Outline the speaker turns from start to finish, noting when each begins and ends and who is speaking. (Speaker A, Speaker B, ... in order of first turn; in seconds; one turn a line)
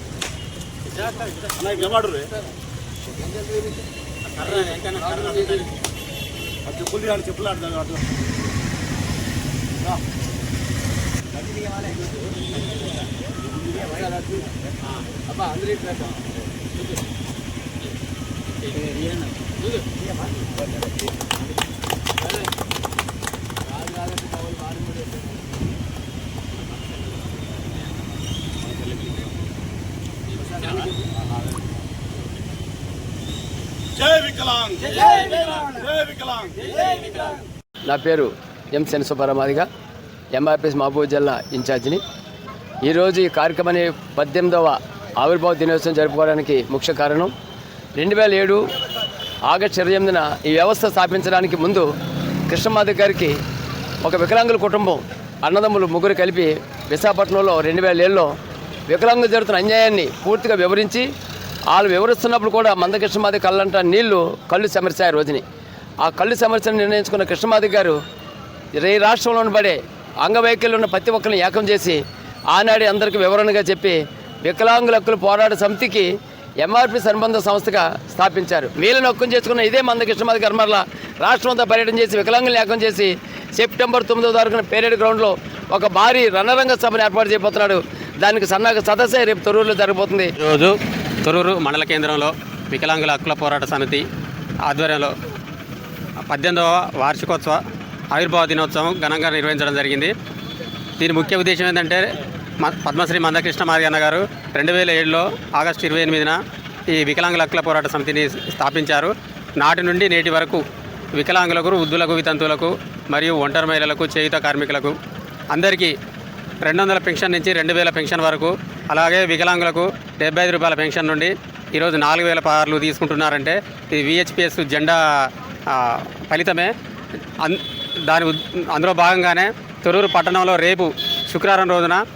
Speaker A: 1.8-2.3
Speaker B: 4.3-5.7
Speaker A: 6.8-7.9
Speaker C: 15.4-15.9
Speaker B: 18.6-19.3
Speaker C: 23.9-24.9
Speaker B: 26.7-27.0
Speaker B: 30.3-30.9
Speaker A: 34.1-34.9
Speaker B: 35.0-35.8
Speaker B: 36.8-37.3
Speaker C: 37.9-39.7
Speaker C: 40.3-42.0
Speaker C: 42.9-47.3
Speaker C: 48.0-48.6
Speaker C: 49.5-51.9
Speaker C: 52.5-53.4
Speaker C: 54.0-58.3
Speaker C: 58.9-61.0
Speaker C: 61.7-65.4
Speaker C: 66.0-68.0
Speaker C: 68.8-72.0
Speaker C: 72.5-76.1
Speaker C: 76.6-90.3
Speaker B: 90.4-94.0
Speaker B: 94.7-95.1
Speaker B: 96.3-97.6
Speaker B: 98.1-100.1
Speaker B: 101.0-110.6
Speaker B: 111.2-115.0
Speaker B: 115.5-115.9
Speaker B: 116.6-126.7
Speaker B: 127.4-132.0